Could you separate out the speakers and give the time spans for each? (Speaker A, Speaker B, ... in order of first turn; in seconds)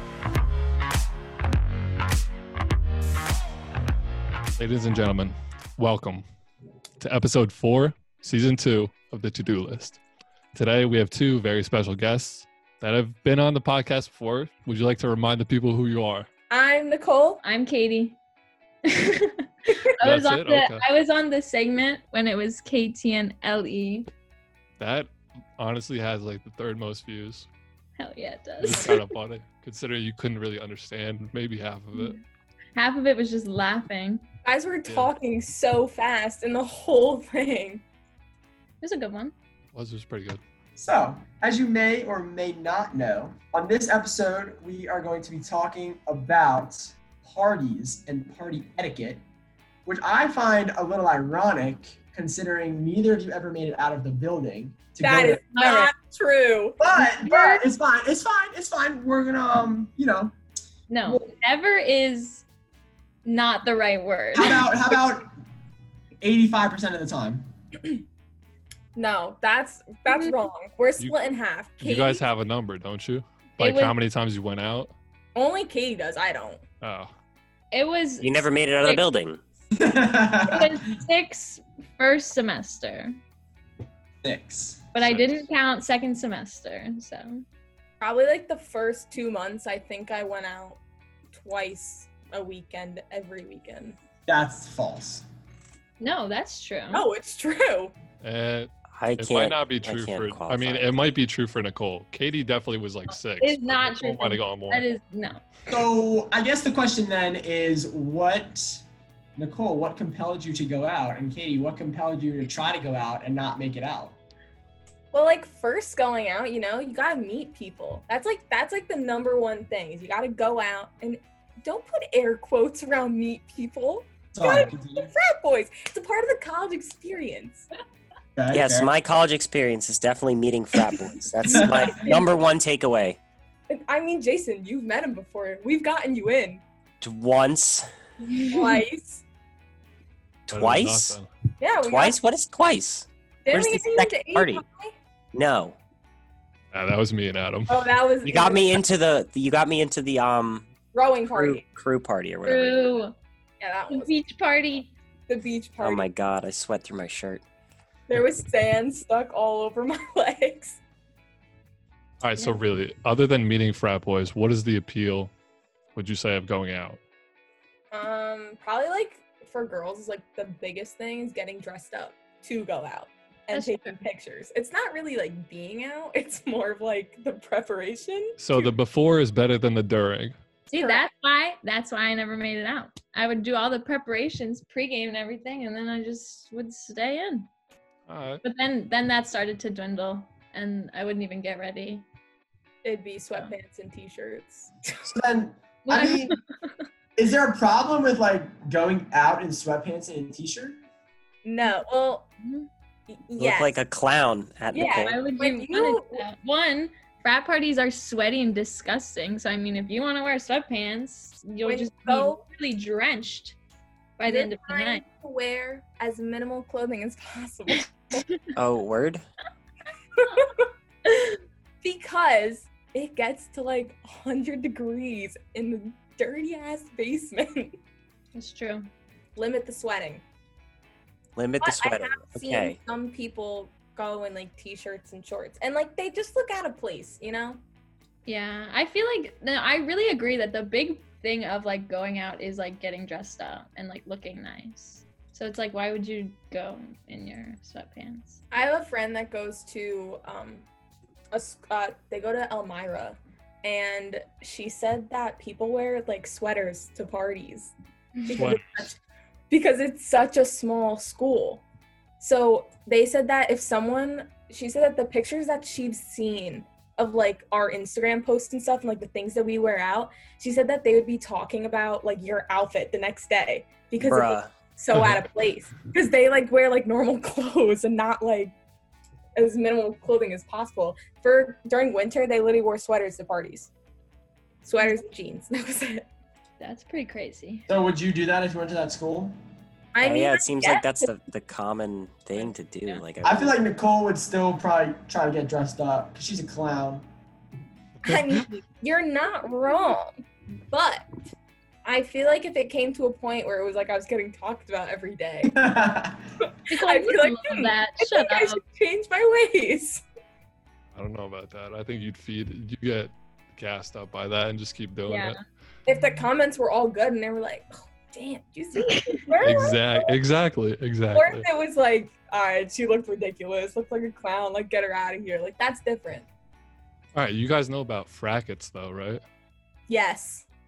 Speaker A: 4.6-6.2, 7.0-10.0, 10.5-16.3, 20.0-20.8, 24.8-27.5, 28.6-32.2, 34.9-35.1, 39.7-40.4, 71.8-74.9, 76.8-77.1, 85.0-85.4, 98.2-104.9, 140.5-141.3, 146.7-147.9, 162.2-165.3, 165.9-167.0, 178.4-180.4, 188.1-188.4, 258.3-258.9, 310.9-315.4, 319.4-321.4, 327.1-329.2
Speaker B: 16.5-17.4, 34.5-37.8, 55.0-56.8, 69.0-72.2, 75.3-76.6, 88.0-90.8, 91.3-94.0, 96.9-97.9, 115.1-127.7, 131.4-132.4, 133.7-136.6, 138.4-139.2, 141.6-142.2, 143.5-144.9, 147.7-148.8, 150.9-151.6, 153.6-154.1, 155.3-156.1, 158.1-160.8, 167.9-178.7, 192.8-194.9, 201.4-202.3, 203.1-203.8, 204.7-206.2, 211.7-212.4, 214.3-218.2, 220.2-220.6, 221.8-227.8, 229.4-230.2, 231.6-237.6, 248.5-250.7, 251.3-257.7, 258.2-259.0, 259.5-261.6, 262.2-278.5, 279.4-283.7, 284.6-286.1, 289.9-291.1, 298.0-301.1, 301.9-305.6, 306.4-310.0, 315.9-320.1, 321.1-326.3, 329.9-330.5
Speaker C: 17.4-18.2, 18.9-24.1, 28.0-29.1, 31.9-32.2, 32.8-34.2, 38.8-39.3, 55.5-55.9, 57.0-57.6, 60.9-62.5, 63.2-64.7, 73.6-74.0, 77.7-79.0, 80.5-83.2, 84.9-87.4, 96.0-97.1, 103.4-105.5, 152.4-153.1, 153.9-154.9, 173.5-174.0, 180.7-187.5, 188.4-192.1, 195.9-196.7, 202.4-202.7, 205.0-213.6, 214.2-215.0, 221.1-221.4, 228.3-228.9, 238.3-248.4, 286.6-287.7, 292.4-293.0, 306.7-308.6, 315.1-315.4, 318.9-319.3
Speaker D: 40.8-49.2, 49.9-55.4, 56.8-60.3, 64.3-65.3, 66.2-67.5, 79.8-80.8, 84.2-84.9, 94.3-95.2, 105.7-108.8, 109.4-114.2, 124.3-125.1, 128.4-128.9, 131.5-132.0, 195.1-196.4, 197.2-200.8, 287.7-289.4, 293.2-297.1, 305.4-306.3
Speaker E: 78.2-79.4, 99.0-101.1, 128.5-133.2, 137.0-137.9, 140.5-141.2, 141.8-144.6, 145.3-145.8, 148.2-150.7, 151.3-153.0, 155.8-157.4, 203.4-205.2, 218.6-219.2, 231.4-232.8, 274.0-274.5, 290.0-293.5